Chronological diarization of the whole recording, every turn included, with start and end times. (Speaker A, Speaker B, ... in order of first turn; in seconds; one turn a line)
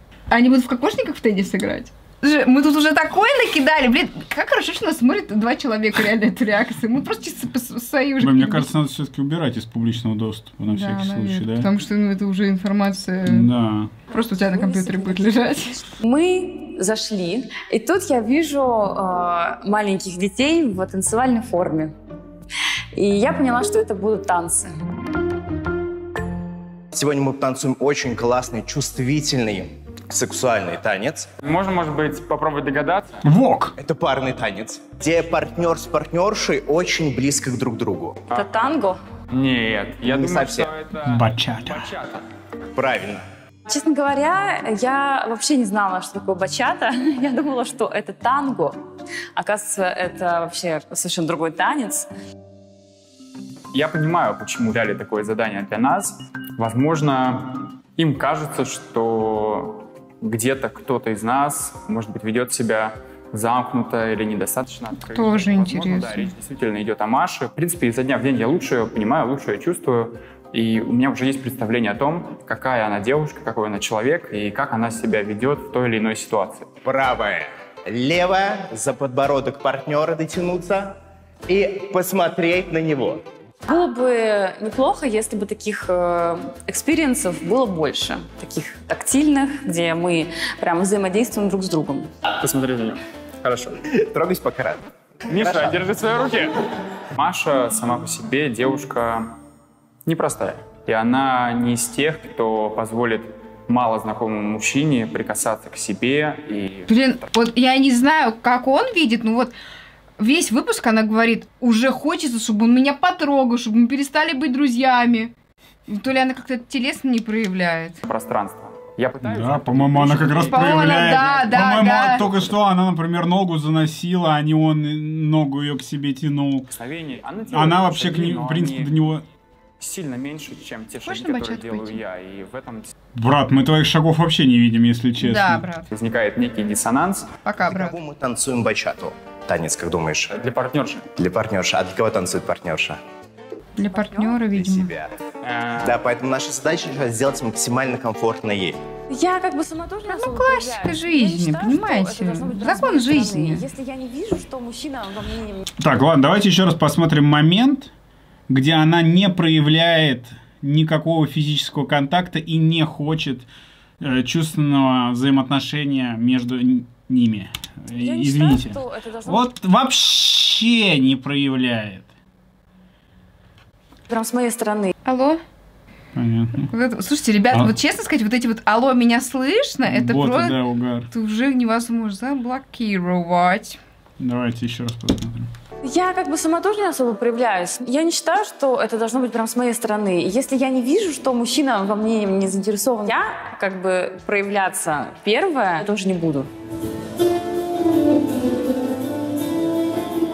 Speaker A: 0.3-8.7
Speaker B: 8.2-11.7
Speaker A: 10.7-13.5
Speaker B: 13.3-13.9
Speaker A: 14.1-15.8
Speaker C: 14.2-21.9
Speaker C: 22.9-24.8
Speaker D: 26.9-31.3
Speaker E: 31.4-33.2
Speaker B: 33.2-33.8
Speaker D: 33.8-38.2
Speaker C: 38.3-39.0
Speaker E: 39.3-42.3
Speaker D: 40.0-40.7
Speaker B: 41.0-41.9
Speaker D: 42.8-43.2
Speaker C: 43.7-48.8
Speaker C: 49.4-52.1
Speaker E: 53.7-76.7
Speaker A: 65.0-66.3
Speaker D: 76.8-81.0
Speaker D: 81.5-83.2
Speaker C: 83.7-92.1
Speaker E: 92.4-93.7
Speaker D: 93.9-95.9
Speaker E: 95.3-96.6
Speaker E: 97.2-99.4
Speaker E: 100.1-106.9
Speaker A: 106.9-109.5
Speaker A: 110.2-115.3
Speaker A: 115.9-118.0
Speaker E: 118.1-121.4
Speaker B: 119.2-126.7
Speaker A: 120.5-122.2
Speaker E: 126.7-128.9
Speaker B: 127.5-129.2
Speaker E: 129.8-132.9
Speaker A: 131.1-132.0
Speaker B: 133.2-135.7
Speaker A: 135.2-135.9
Speaker E: 135.9-137.3
Speaker A: 137.4-138.0
Speaker D: 137.7-140.4
Speaker E: 140.3-141.1
Speaker D: 141.2-143.0
Speaker A: 143.8-144.9
Speaker C: 143.9-144.4
Speaker D: 144.5-145.2
Speaker E: 145.4-146.0
Speaker D: 145.8-148.8
Speaker C: 149.1-155.7
Speaker A: 150.1-153.6
Speaker B: 155.8-157.9
Speaker B: 158.5-163.5
Speaker B: 164.0-172.1
Speaker C: 167.9-169.5
Speaker C: 174.1-174.9
Speaker A: 175.1-175.4
Speaker B: 176.1-176.7
Speaker A: 176.7-180.6
Speaker B: 179.8-181.1
Speaker A: 181.1-183.8
Speaker B: 184.2-185.5
Speaker C: 185.8-196.5